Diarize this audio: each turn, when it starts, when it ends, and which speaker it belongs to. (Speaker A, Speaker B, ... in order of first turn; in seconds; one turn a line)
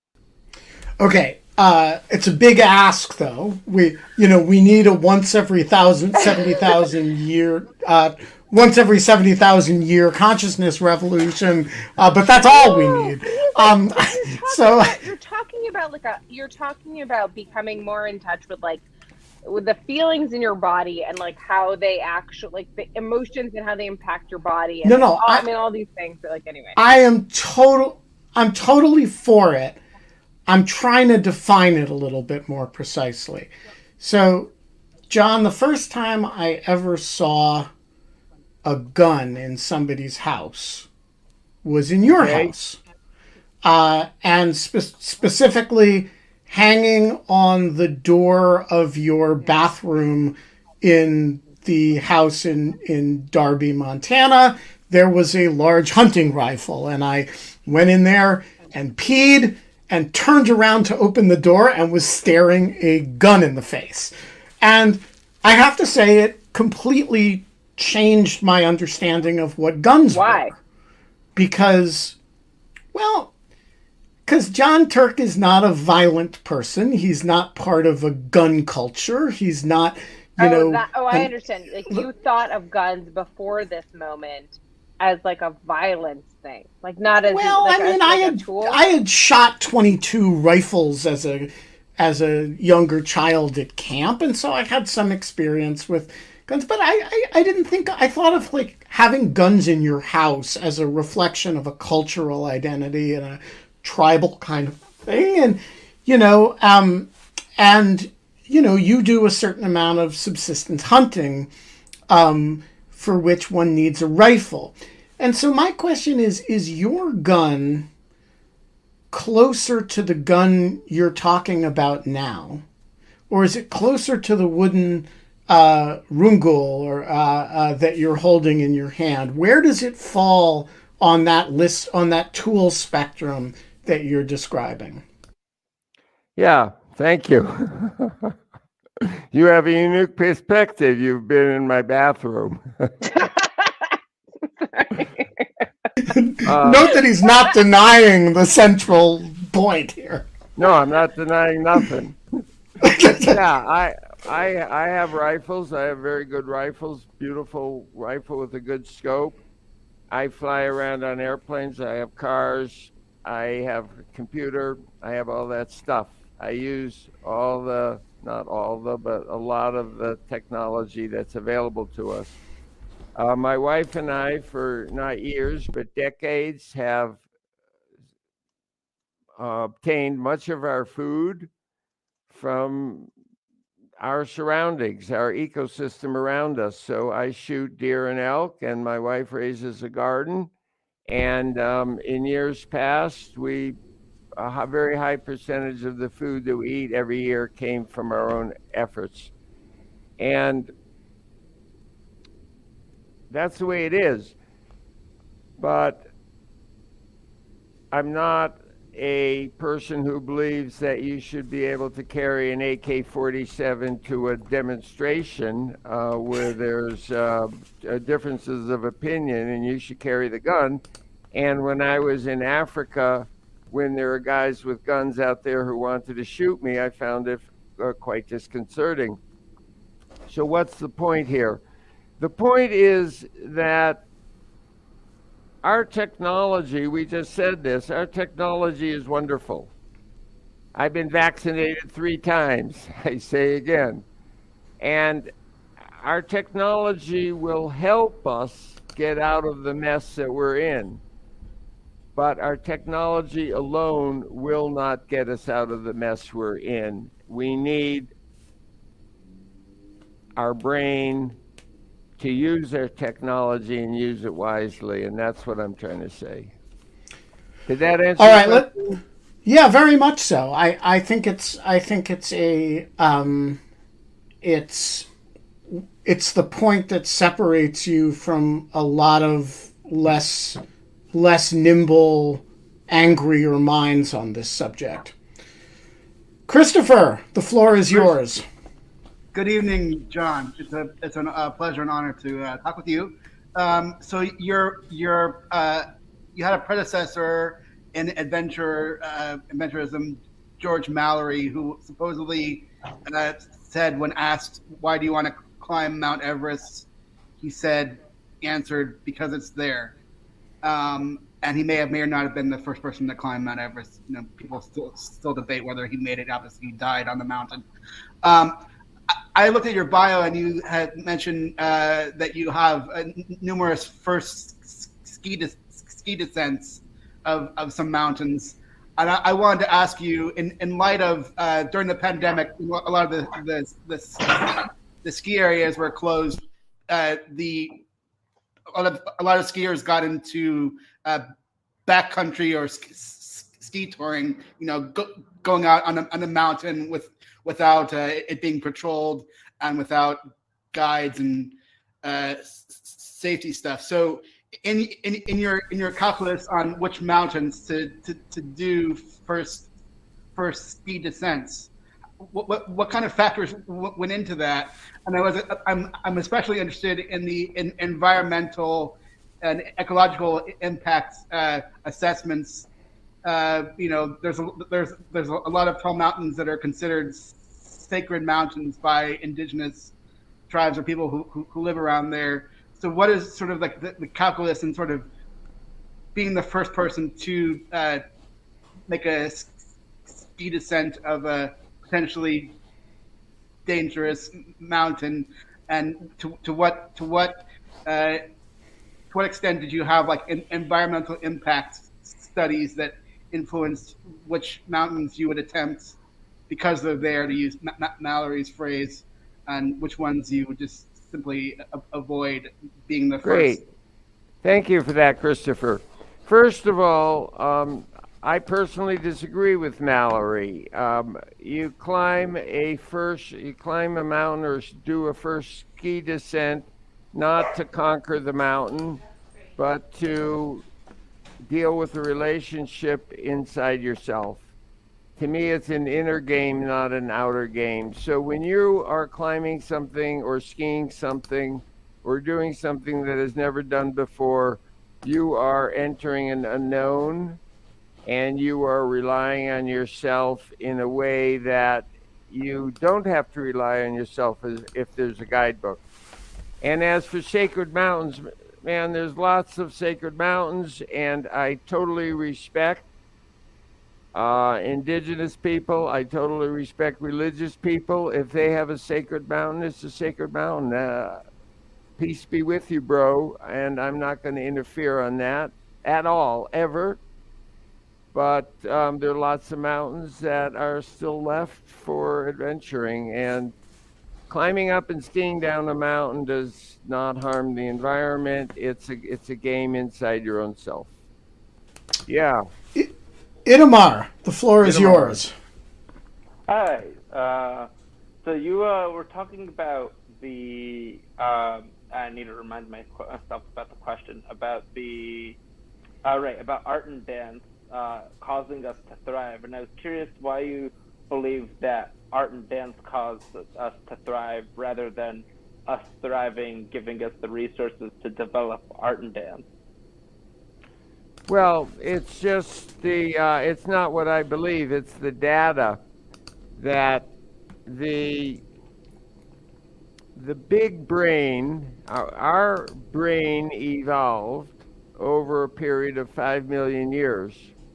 Speaker A: 1.0-14.9
Speaker B: 6.4-6.7
Speaker B: 12.4-18.8
Speaker B: 19.4-26.8
Speaker A: 24.8-25.4
Speaker A: 26.8-29.8
Speaker A: 30.5-34.5
Speaker A: 35.1-37.7
Speaker A: 38.6-40.9
Speaker A: 41.6-42.8
Speaker C: 42.2-42.5
Speaker A: 43.6-70.6
Speaker B: 70.1-70.5
Speaker A: 71.3-72.2
Speaker A: 72.9-73.3
Speaker A: 74.2-81.3
Speaker B: 80.4-88.8
Speaker A: 87.3-111.5
Speaker A: 112.1-117.9
Speaker A: 119.1-122.6
Speaker A: 123.3-135.0
Speaker C: 136.4-138.3
Speaker C: 139.0-142.9
Speaker B: 143.1-145.4
Speaker A: 146.1-150.3
Speaker C: 146.4-146.9
Speaker C: 150.6-152.2
Speaker A: 152.8-153.3
Speaker C: 153.0-159.4
Speaker C: 160.1-172.3
Speaker C: 173.2-177.2
Speaker C: 179.4-181.5
Speaker C: 182.3-183.1
Speaker C: 184.0-190.5
Speaker C: 191.1-193.8
Speaker C: 194.4-199.3
Speaker C: 200.2-200.7
Speaker C: 203.3-204.3
Speaker C: 205.6-206.1
Speaker C: 207.9-220.8
Speaker C: 221.3-229.2
Speaker C: 230.3-231.6
Speaker C: 232.2-234.0
Speaker C: 235.6-239.7
Speaker C: 240.7-244.0
Speaker C: 244.8-245.3
Speaker C: 246.0-251.0
Speaker C: 252.1-258.1
Speaker C: 260.4-261.4
Speaker C: 262.2-266.5
Speaker C: 267.7-269.0
Speaker A: 268.2-268.7
Speaker A: 269.4-273.6
Speaker A: 274.4-275.1
Speaker A: 275.7-280.6
Speaker A: 281.1-285.1
Speaker A: 286.5-288.4
Speaker D: 289.3-306.9
Speaker D: 307.4-309.9
Speaker D: 310.6-317.6
Speaker D: 318.2-318.6
Speaker D: 319.3-337.8
Speaker D: 338.7-341.2
Speaker D: 341.9-350.2
Speaker D: 350.7-359.7
Speaker D: 360.4-361.7
Speaker D: 362.2-372.7
Speaker D: 373.2-379.9
Speaker D: 380.5-385.1
Speaker D: 386.1-388.0
Speaker D: 388.9-392.5
Speaker D: 393.6-398.2
Speaker D: 399.1-406.0
Speaker D: 406.5-413.6
Speaker C: 413.2-413.6
Speaker C: 414.4-429.0
Speaker C: 429.6-430.6
Speaker C: 431.4-434.5
Speaker C: 435.2-447.4
Speaker C: 448.1-455.8
Speaker C: 456.6-462.8
Speaker C: 464.1-471.2
Speaker C: 472.0-477.0
Speaker C: 478.1-483.5
Speaker C: 484.3-490.9
Speaker C: 492.1-492.4
Speaker A: 493.4-495.3
Speaker C: 494.6-495.2
Speaker E: 496.5-497.7
Speaker E: 498.2-505.4
Speaker E: 506.0-519.5
Speaker C: 521.3-525.8
Speaker C: 526.6-527.1
Speaker C: 527.6-528.4
Speaker C: 530.1-537.5